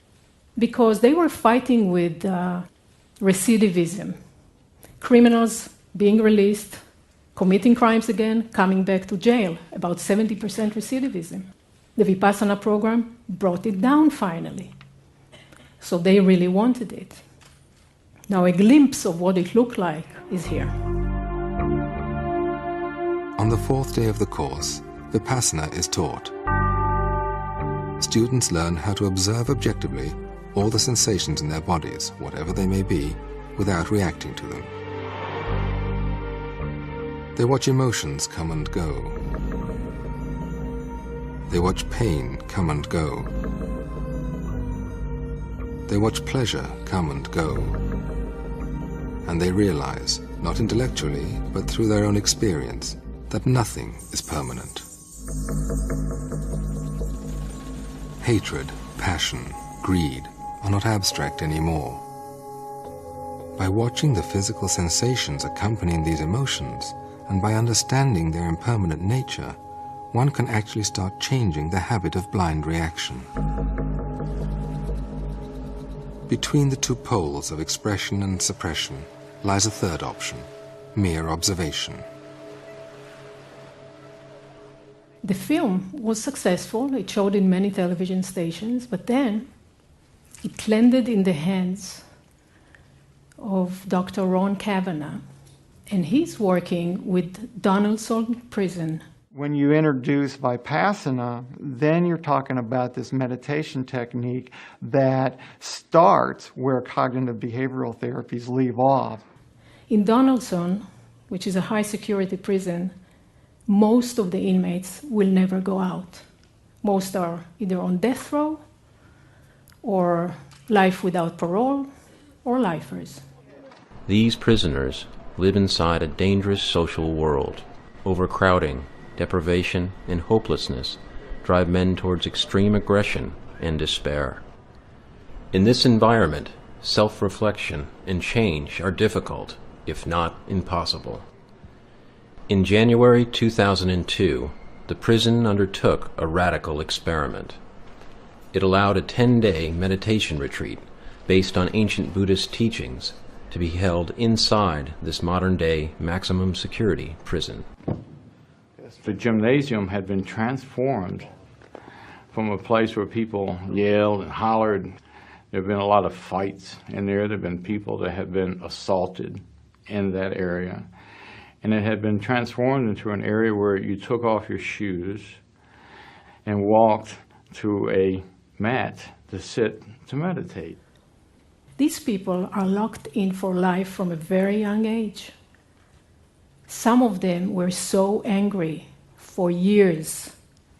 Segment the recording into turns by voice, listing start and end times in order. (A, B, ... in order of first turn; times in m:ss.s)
0:00.6-0:02.7 A
0:03.2-0:04.2 A
0:05.0-0:06.8 A
0:07.4-0:14.7 A
0:15.8-0:17.2 A
0:18.3-0:20.7 A
0:23.4-0:26.3 B
0:28.0-0:34.7 B
0:37.4-0:39.2 B
0:41.5-0:43.3 B
0:45.9-0:47.8 B
0:49.2-0:54.8 B
0:58.2-1:02.0 B
1:03.6-1:09.6 B
1:10.1-1:13.3 B
1:16.3-1:22.0 B
1:25.2-1:29.5 A
1:30.4-1:32.1 A
1:33.4-1:35.2 A
1:35.9-1:39.0 A
1:39.3-1:49.2 C
1:49.9-1:53.0 A
1:53.7-1:56.2 A
1:56.8-1:58.6 A
1:59.8-2:01.9 A
2:02.4-2:03.2 A
2:04.1-2:14.4 D
2:15.5-2:21.2 D
2:22.5-2:27.6 D
2:28.5-2:37.7 D
2:38.9-2:41.3 E
2:42.3-2:45.0 E
2:45.5-2:51.0 E
2:51.6-2:55.5 E
2:56.4-3:00.8 E
3:01.8-3:05.3 A
3:06.7-3:10.4 A